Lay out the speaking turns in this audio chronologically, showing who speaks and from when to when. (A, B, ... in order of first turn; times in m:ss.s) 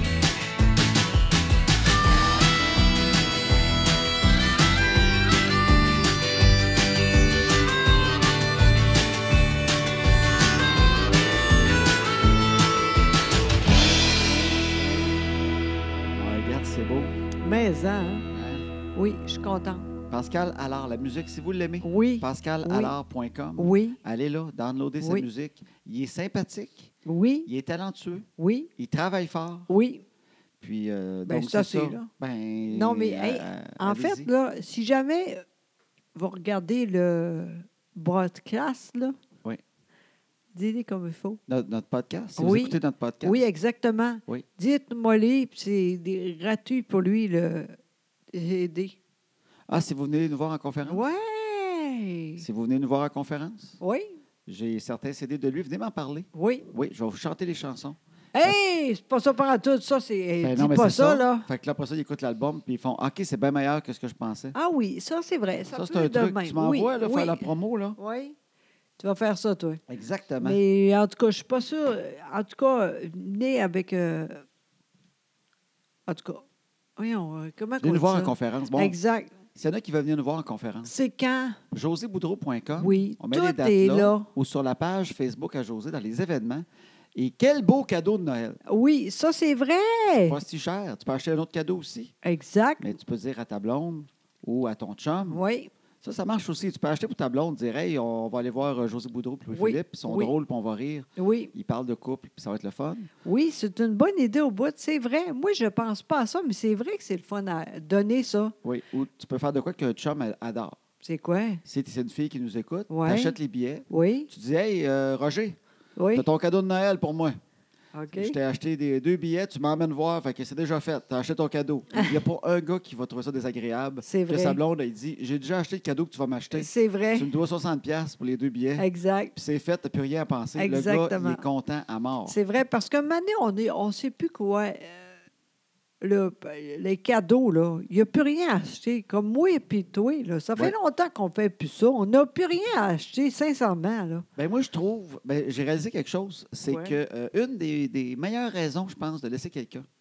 0:16.1-0:17.2 A
0:17.4-0:18.2 B
0:18.3-0:18.6 A
0:18.9-0:19.9 B
0:20.1-0:26.9 A
0:21.8-0:22.9 B
0:23.6-0:24.0 B
0:25.0-0:25.3 B
0:27.0-0:27.5 B
0:27.4-0:29.7 A
0:28.4-0:28.7 B
0:29.7-0:30.0 B
0:30.6-0:34.3 A
0:31.2-0:32.1 B
0:32.7-0:35.4 B
0:36.1-0:39.1 B
0:40.5-0:41.4 B
0:41.5-0:43.4 A
0:42.4-0:47.7 B
0:48.3-0:49.0 B
0:49.7-0:51.0 A
0:50.8-0:52.4 B
0:52.4-0:53.8 A
0:53.8-0:54.2 B
0:54.5-0:58.5 A
0:56.3-0:56.6 B
0:58.3-1:01.5 B
1:00.4-1:04.5 A
1:04.5-1:08.3 B
1:05.7-1:08.0 A
1:09.0-1:09.8 B
1:09.9-1:10.6 A
1:10.4-1:14.4 B
1:16.1-1:16.4 B
1:17.0-1:19.3 B
1:17.8-1:19.0 A
1:19.5-1:20.9 A
1:20.8-1:21.6 B
1:21.7-1:28.6 A
1:22.8-1:24.3 B
1:28.6-1:30.4 B
1:30.3-1:32.1 A
1:32.2-1:32.8 B
1:32.8-1:35.4 A
1:35.3-1:35.7 B
1:36.0-1:43.1 A
1:39.5-1:40.3 B
1:41.2-1:41.5 B
1:43.2-1:48.5 B
1:48.6-1:50.8 A
1:51.0-1:51.6 B
1:51.6-1:55.6 A
1:52.9-1:53.4 B
1:53.9-1:54.3 B
1:56.0-1:56.2 B
1:56.1-1:57.4 A
1:57.9-1:58.4 B
1:58.1-2:12.3 A
2:04.0-2:04.6 B
2:06.5-2:07.3 B
2:08.8-2:09.3 B
2:10.6-2:11.4 B
2:12.3-2:15.1 B
2:16.0-2:24.2 B
2:24.4-2:29.8 A
2:26.6-2:27.0 B